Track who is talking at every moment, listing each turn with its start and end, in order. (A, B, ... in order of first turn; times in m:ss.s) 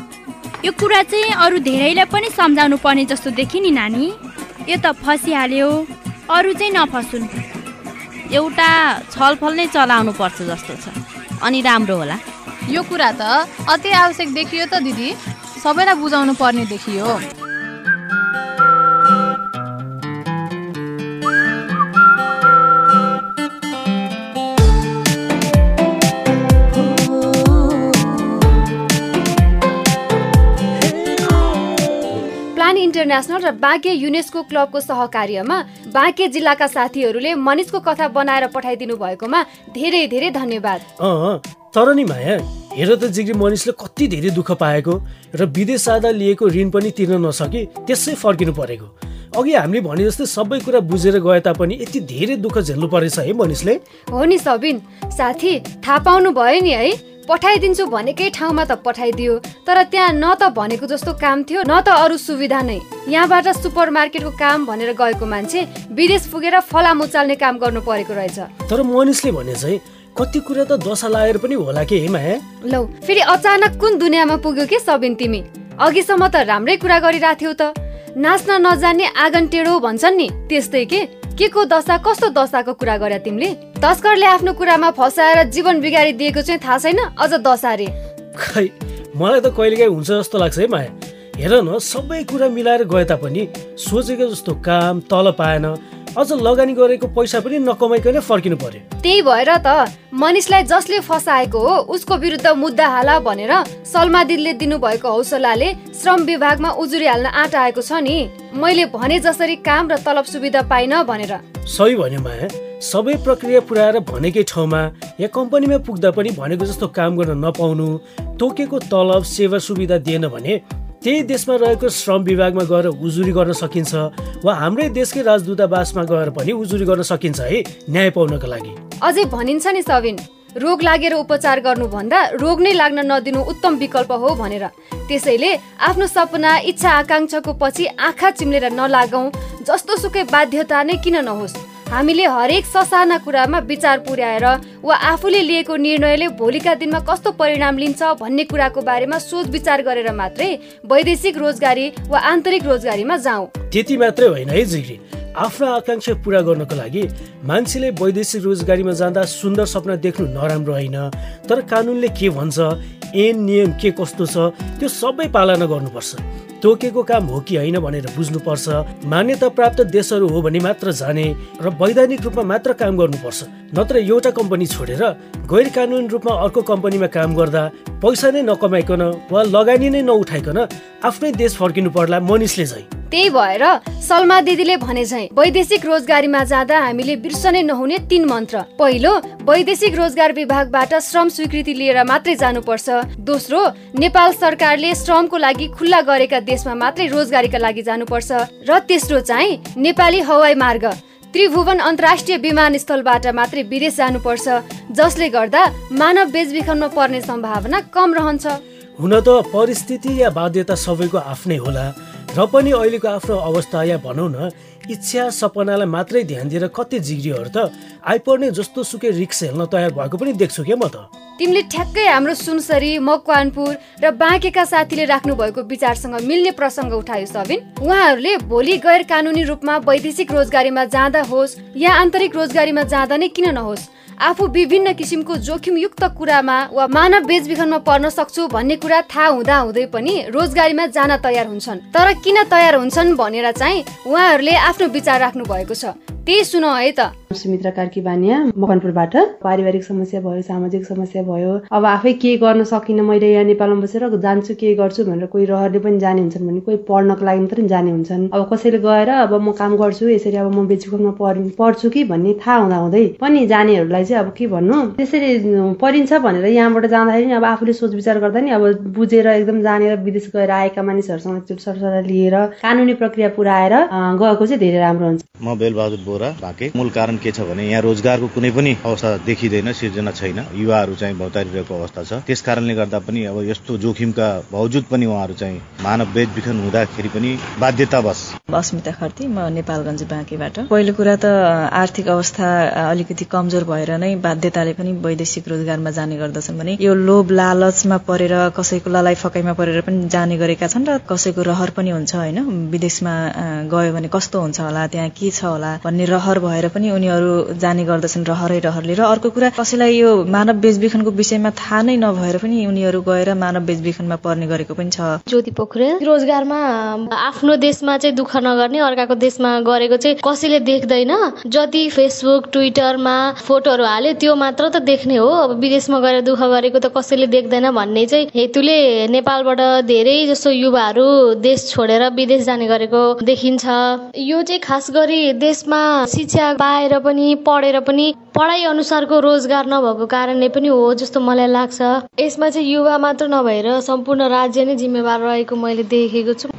0:00.6-0:07.3 A
0:08.3-0:12.2 B
0:12.7-0:17.2 C
0:32.6-0:40.8 D
0:41.0-0:53.8 E
0:54.1-1:08.5 D
1:08.7-1:12.4 E
1:12.7-1:27.9 D
1:28.4-1:38.8 E
1:39.0-1:51.4 D
1:51.7-2:08.8 E
2:09.0-2:33.5 D
2:33.7-3:02.9 E
3:03.1-3:28.6 D
3:29.0-3:41.1 E
3:41.4-4:07.1 D
4:07.3-4:35.2 F
4:35.4-4:48.3 G
4:48.5-5:15.1 H
5:15.3-5:46.5 I